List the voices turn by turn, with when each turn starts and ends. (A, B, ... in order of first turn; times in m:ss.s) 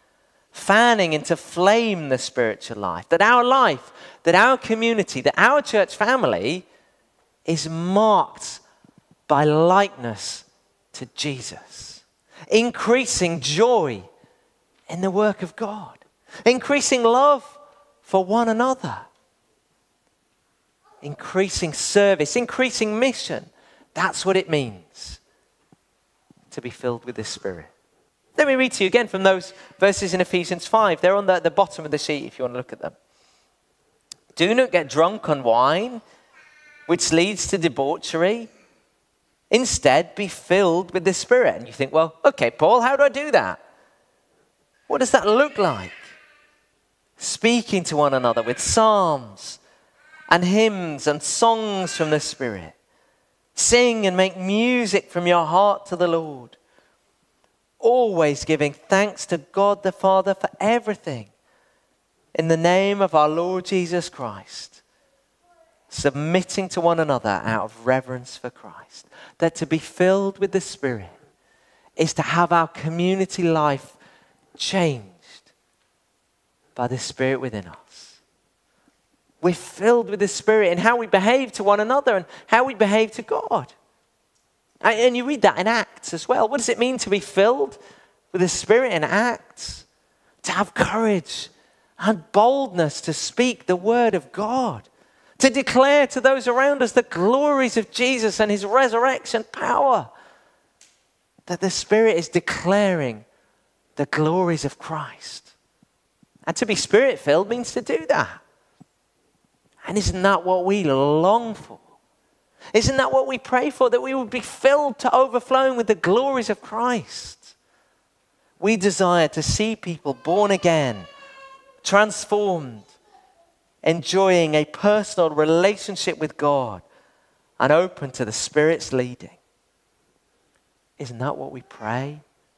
0:00.5-0:06.7 A
0:07.4-0:08.6 A
0:09.3-0:14.1 A
0:14.9-0:19.1 A
0:21.0-0:25.2 A
0:26.5-0:27.7 A
0:28.4-0:33.0 A
0:34.4-0:36.0 A
0:36.9-0:38.5 A
0:39.5-0:43.6 A
0:44.9-0:46.0 A
0:47.2-0:49.6 A
0:50.3-0:52.7 A
0:53.6-0:56.6 A
0:57.8-1:01.3 A
1:02.3-1:04.8 A
1:05.9-1:11.2 A
1:12.0-1:14.0 A
1:14.6-1:15.5 A
1:16.8-1:18.2 A
1:19.4-1:23.7 A
1:24.8-1:27.8 A
1:28.3-1:29.8 A
1:30.4-1:34.9 A
1:35.4-1:40.1 A
1:41.5-1:43.2 A
1:44.0-1:45.5 A
1:46.4-1:48.4 A
1:49.8-1:51.8 A
1:52.7-1:57.5 A
1:58.6-2:01.1 A
2:01.8-2:02.9 A
2:03.8-2:06.8 A
2:07.6-2:09.4 A
2:11.0-2:12.2 A